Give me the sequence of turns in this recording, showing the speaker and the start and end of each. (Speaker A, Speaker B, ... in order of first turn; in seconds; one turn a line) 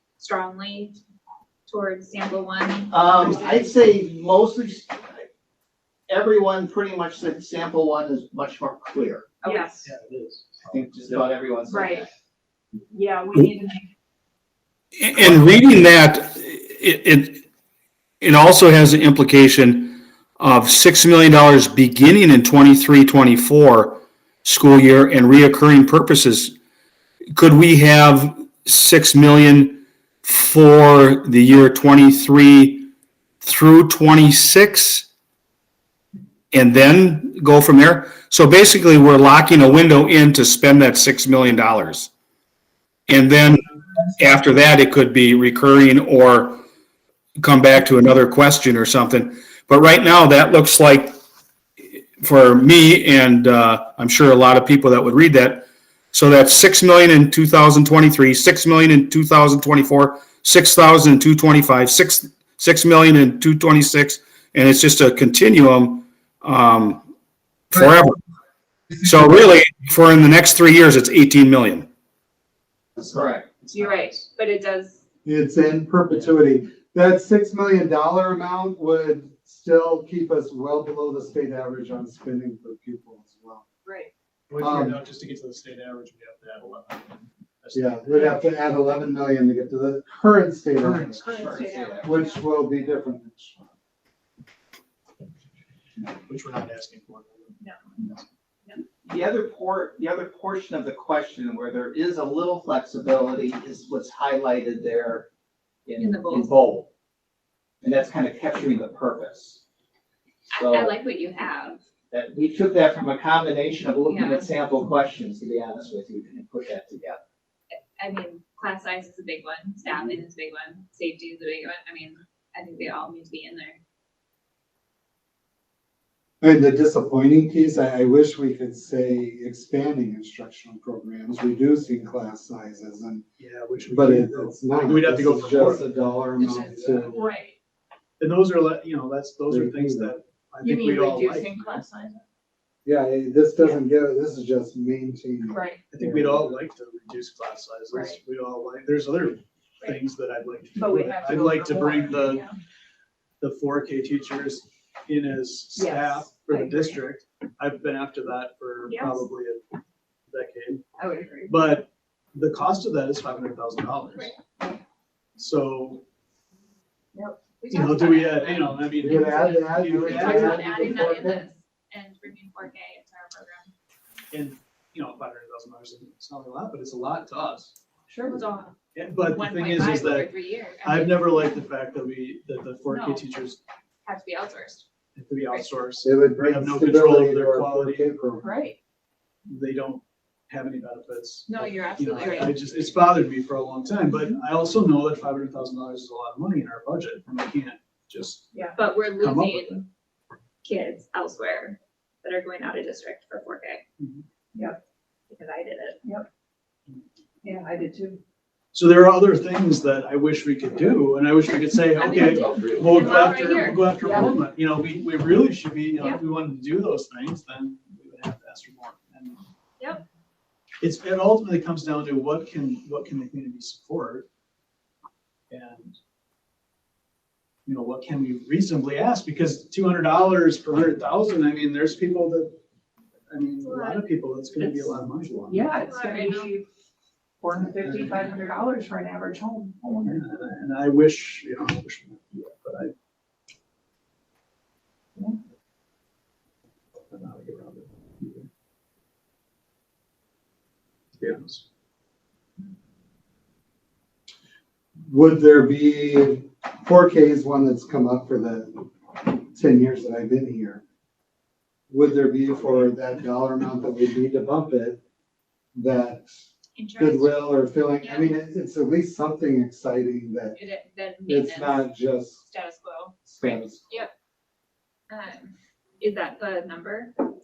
Speaker A: 0.2-1.0
Speaker A: 1.7-3.7
Speaker B: 2.9-5.3
Speaker B: 6.1-9.3
Speaker A: 9.4-9.8
Speaker C: 9.4-9.9
Speaker D: 9.8-10.9
Speaker B: 10.6-12.1
Speaker C: 11.7-12.0
Speaker C: 12.9-13.8
Speaker E: 15.0-17.4
Speaker E: 18.2-26.6
Speaker E: 27.3-32.9
Speaker E: 33.4-35.1
Speaker E: 36.5-42.1
Speaker E: 43.1-43.6
Speaker E: 44.2-46.6
Speaker E: 47.4-51.2
Speaker E: 52.2-67.0
Speaker E: 67.7-68.2
Speaker E: 69.0-71.9
Speaker B: 73.1-73.5
Speaker A: 73.7-75.0
Speaker F: 75.2-83.7
Speaker C: 83.8-84.1
Speaker D: 84.5-88.6
Speaker F: 84.6-85.0
Speaker F: 87.7-93.7
Speaker D: 90.8-91.2
Speaker C: 91.2-92.3
Speaker B: 91.2-92.1
Speaker D: 96.0-98.2
Speaker B: 99.0-105.2
Speaker B: 105.8-106.9
Speaker A: 106.0-106.5
Speaker B: 107.8-109.6
Speaker A: 110.5-111.8
Speaker B: 110.6-110.9
Speaker B: 112.1-117.2
Speaker A: 114.1-114.5
Speaker A: 117.7-123.8
Speaker F: 126.4-133.2
Speaker D: 133.4-137.2
Speaker F: 133.9-137.2
Speaker A: 136.3-137.5
Speaker C: 137.1-137.5
Speaker D: 138.2-141.8
Speaker F: 139.5-140.1
Speaker C: 140.6-142.2
Speaker F: 142.8-146.5
Speaker C: 145.5-145.8
Speaker D: 145.9-152.4
Speaker C: 147.9-148.2
Speaker C: 150.8-152.6
Speaker D: 153.4-159.6
Speaker C: 155.8-157.0
Speaker C: 158.8-159.2
Speaker D: 160.3-160.8
Speaker C: 161.0-161.7
Speaker D: 161.5-164.3
Speaker D: 165.3-166.0
Speaker C: 167.1-167.6
Speaker A: 167.6-169.1
Speaker D: 167.7-170.8
Speaker F: 169.0-171.4
Speaker A: 170.0-173.7
Speaker D: 174.3-177.8
Speaker C: 178.1-178.4
Speaker A: 178.3-178.7
Speaker D: 178.9-180.3
Speaker A: 179.2-181.4
Speaker D: 180.8-183.6
Speaker A: 182.9-183.2
Speaker A: 184.0-184.8
Speaker D: 185.1-188.2
Speaker F: 186.0-188.5
Speaker C: 188.4-188.8
Speaker D: 189.4-199.8
Speaker A: 191.5-192.6
Speaker C: 192.1-192.5
Speaker C: 198.5-198.8
Speaker A: 198.8-199.8
Speaker A: 200.6-203.8
Speaker D: 204.0-204.2
Speaker A: 205.3-206.0
Speaker C: 207.4-208.2
Speaker D: 208.7-219.4
Speaker A: 211.9-213.9
Speaker C: 212.2-212.6
Speaker C: 214.1-214.3
Speaker D: 220.8-224.2
Speaker D: 225.5-225.9
Speaker D: 227.7-232.6
Speaker D: 233.3-235.7
Speaker A: 233.6-234.1
Speaker C: 234.6-234.9
Speaker C: 235.5-236.7
Speaker A: 235.7-236.5
Speaker C: 237.4-240.2
Speaker D: 240.1-242.9
Speaker D: 247.1-248.5
Speaker D: 251.2-251.6
Speaker F: 255.0-260.8
Speaker F: 261.9-265.0
Speaker F: 265.8-266.3
Speaker A: 266.8-268.4
Speaker F: 267.0-270.6
Speaker A: 270.6-273.1
Speaker F: 271.3-272.4
Speaker F: 273.2-273.8
Speaker B: 273.4-273.7
Speaker A: 275.1-277.1